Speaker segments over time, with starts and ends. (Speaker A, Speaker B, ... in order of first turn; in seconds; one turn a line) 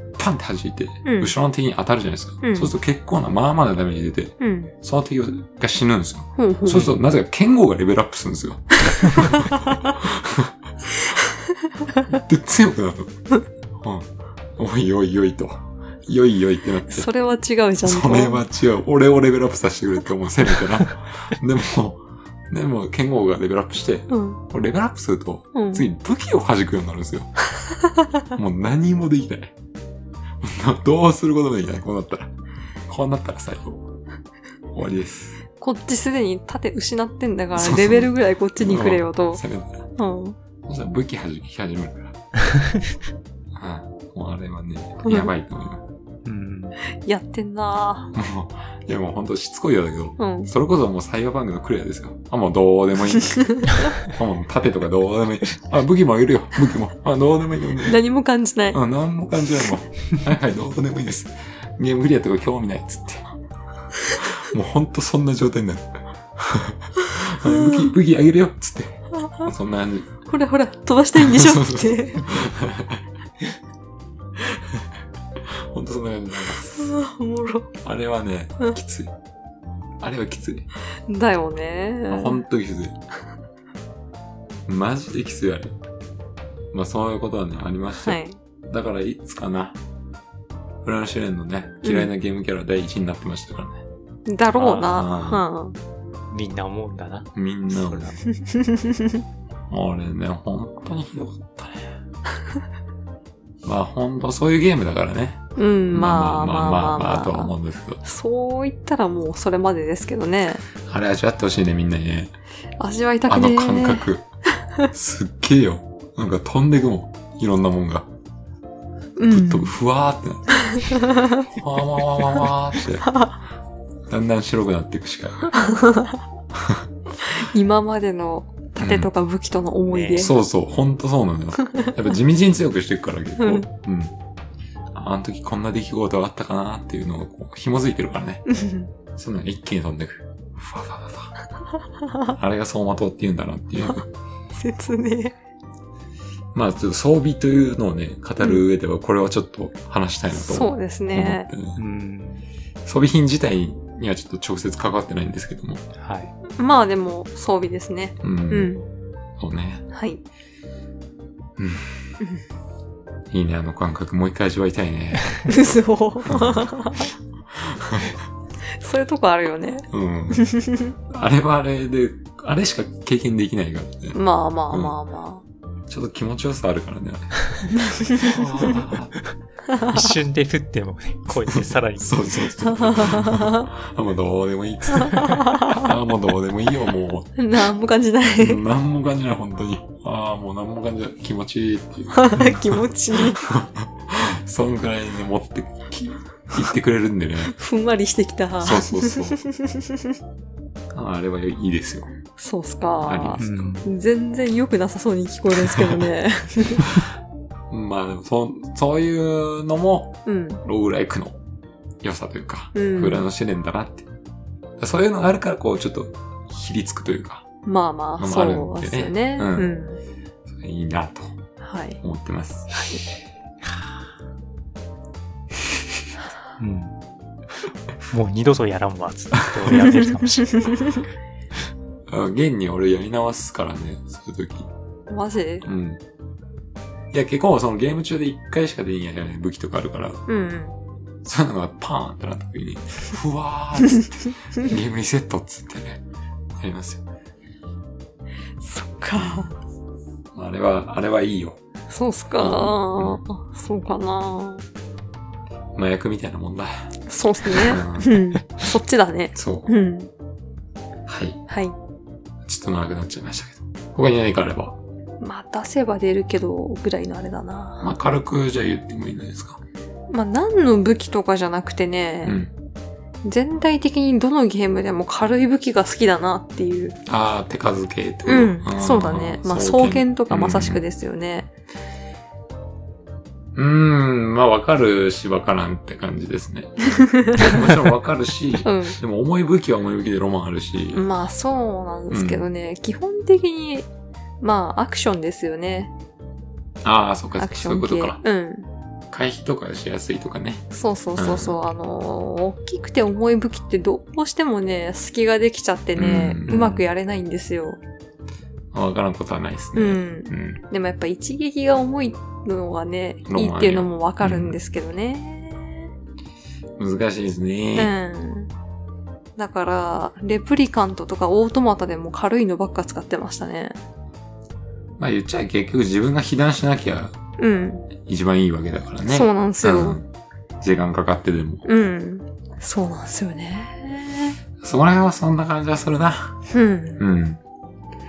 Speaker A: 0.2-10.5
Speaker B: 1.1-1.3
Speaker B: 2.4-2.7
Speaker B: 4.4-4.7
Speaker B: 6.4-6.9
Speaker B: 9.2-9.8
Speaker A: 12.1-13.1
Speaker A: 13.8-17.1
Speaker B: 16.9-18.4
Speaker A: 17.8-27.3
Speaker B: 24.1-24.4
Speaker B: 25.5-25.9
Speaker A: 28.3-29.5
Speaker A: 30.4-32.3
Speaker A: 32.9-33.9
Speaker A: 34.7-35.4
Speaker B: 35.6-39.4
Speaker A: 37.5-39.9
Speaker B: 40.0-40.4
Speaker A: 40.6-42.2
Speaker A: 43.6-45.8
Speaker C: 46.2-46.8
Speaker B: 47.0-48.1
Speaker A: 48.1-58.0
Speaker B: 50.2-50.5
Speaker B: 57.8-58.8
Speaker A: 58.7-63.4
Speaker A: 64.1-70.1
Speaker B: 67.4-67.8
Speaker B: 70.3-72.3
Speaker A: 71.2-73.0
Speaker A: 74.4-74.8
Speaker A: 75.5-76.9
Speaker B: 76.7-77.7
Speaker A: 77.8-79.1
Speaker A: 80.0-80.7
Speaker B: 81.1-82.4
Speaker A: 82.1-83.0
Speaker A: 84.7-85.8
Speaker A: 86.7-89.8
Speaker B: 88.0-88.4
Speaker A: 90.8-93.8
Speaker B: 91.8-92.1
Speaker B: 94.3-95.8
Speaker C: 94.6-94.8
Speaker A: 94.6-95.4
Speaker C: 96.3-98.2
Speaker A: 97.3-98.2
Speaker B: 98.3-99.2
Speaker A: 99.7-101.9
Speaker A: 103.6-108.0
Speaker B: 105.6-107.5
Speaker B: 108.0-110.7
Speaker A: 110.9-112.3
Speaker B: 112.8-114.1
Speaker A: 113.3-114.2
Speaker A: 114.9-118.1
Speaker B: 119.2-119.7
Speaker A: 119.3-123.2
Speaker B: 120.6-121.5
Speaker A: 124.1-125.7
Speaker B: 125.6-126.2
Speaker A: 126.5-126.8
Speaker B: 127.2-130.4
Speaker A: 128.8-129.1
Speaker C: 129.9-130.2
Speaker A: 130.1-134.1
Speaker B: 133.4-133.7
Speaker A: 134.9-138.5
Speaker B: 138.5-138.9
Speaker A: 139.2-141.3
Speaker A: 142.3-144.1
Speaker B: 144.5-145.3
Speaker A: 146.5-151.8
Speaker B: 150.3-151.5
Speaker C: 151.8-152.5
Speaker A: 152.8-155.8
Speaker C: 156.0-156.3
Speaker B: 156.5-158.9
Speaker A: 158.2-158.7
Speaker A: 159.4-159.8
Speaker B: 159.9-160.2
Speaker A: 161.6-162.0
Speaker A: 163.3-165.4
Speaker B: 165.5-167.1
Speaker A: 166.3-166.7
Speaker A: 167.6-168.2
Speaker B: 168.8-170.9
Speaker A: 169.9-170.5
Speaker A: 171.1-174.2
Speaker B: 174.1-175.4
Speaker A: 174.7-174.9
Speaker A: 175.9-179.2
Speaker B: 177.8-178.4
Speaker B: 179.7-180.1
Speaker C: 179.9-182.2
Speaker A: 181.5-187.3
Speaker B: 182.7-183.7
Speaker B: 185.0-185.9
Speaker B: 187.4-188.6
Speaker A: 188.4-197.6
Speaker B: 192.1-193.4
Speaker B: 197.5-200.1
Speaker A: 198.6-199.4
Speaker A: 200.9-202.1
Speaker B: 202.4-206.9
Speaker A: 203.0-203.8
Speaker C: 203.4-203.9
Speaker A: 205.5-206.0
Speaker A: 207.7-211.4
Speaker B: 210.3-210.6
Speaker A: 212.0-214.1
Speaker B: 212.8-213.2
Speaker A: 214.8-217.4
Speaker B: 217.7-220.0
Speaker A: 218.2-219.7
Speaker A: 220.5-221.3
Speaker B: 221.6-222.0
Speaker A: 222.0-222.8
Speaker B: 222.7-223.0
Speaker C: 226.6-227.0
Speaker C: 228.0-231.0
Speaker B: 230.5-231.0
Speaker A: 232.1-234.7
Speaker B: 235.1-235.7
Speaker A: 235.6-236.0
Speaker A: 237.1-240.2
Speaker B: 240.3-240.8
Speaker A: 241.2-246.0
Speaker A: 246.6-247.0
Speaker B: 248.6-249.5
Speaker A: 249.2-249.5
Speaker A: 250.3-251.6
Speaker B: 251.9-254.7
Speaker A: 252.4-253.2
Speaker A: 255.8-256.7
Speaker B: 257.1-260.1
Speaker A: 257.5-258.2
Speaker A: 259.4-259.7
Speaker A: 261.1-261.4
Speaker B: 261.5-261.8
Speaker A: 262.5-264.8
Speaker B: 265.2-267.9
Speaker A: 267.8-269.6
Speaker B: 270.1-272.4
Speaker A: 272.2-272.5
Speaker B: 273.2-277.0
Speaker A: 277.1-280.8
Speaker B: 278.3-281.5
Speaker A: 283.6-291.1
Speaker B: 286.9-287.8
Speaker B: 288.6-289.0
Speaker B: 290.9-293.9
Speaker A: 292.1-292.5
Speaker B: 294.4-295.9
Speaker A: 296.8-298.2
Speaker B: 297.4-298.7
Speaker A: 299.1-301.6
Speaker B: 300.7-307.8
Speaker A: 306.0-306.9
Speaker A: 308.7-310.6
Speaker B: 309.8-315.9
Speaker A: 313.3-314.6
Speaker A: 316.8-317.9
Speaker B: 317.8-318.5
Speaker B: 319.4-323.8
Speaker A: 325.0-327.2
Speaker B: 327.4-327.9
Speaker A: 328.0-330.1
Speaker B: 329.1-330.0
Speaker A: 330.6-331.7
Speaker B: 331.7-334.4
Speaker A: 334.6-336.4
Speaker B: 336.5-337.0
Speaker A: 337.0-337.4